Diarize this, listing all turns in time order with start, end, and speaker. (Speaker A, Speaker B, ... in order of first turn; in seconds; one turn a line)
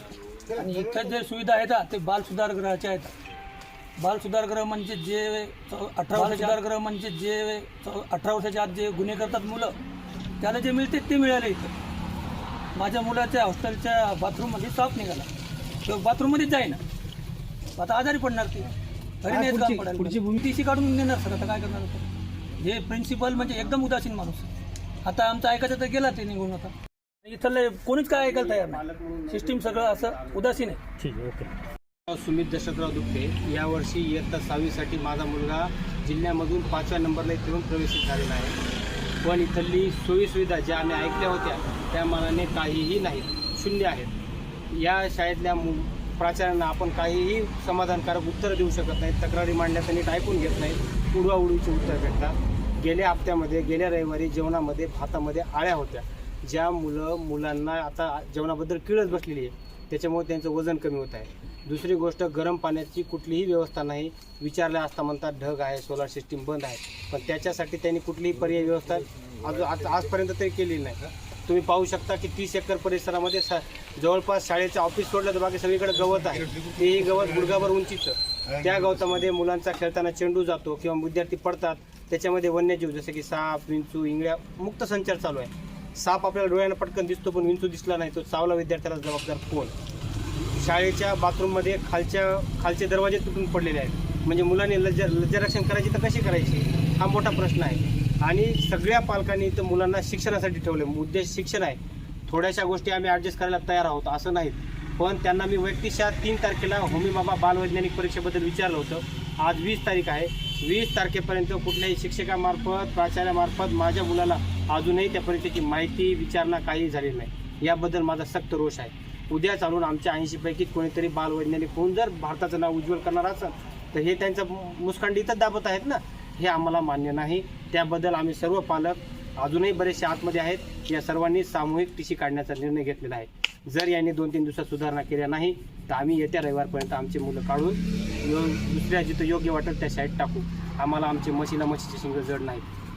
Speaker A: 0.5-3.1
Speaker A: 4.0-9.8
Speaker B: 6.1-6.6
Speaker A: 10.4-11.7
Speaker A: 12.8-15.3
Speaker A: 15.8-16.8
Speaker A: 17.8-18.7
Speaker A: 19.2-24.5
Speaker B: 19.3-20.4
Speaker A: 25.0-26.7
Speaker A: 27.2-30.8
Speaker C: 28.1-31.1
Speaker B: 31.0-31.4
Speaker C: 32.1-38.6
Speaker C: 39.2-44.1
Speaker C: 44.7-89.7
Speaker C: 90.5-142.7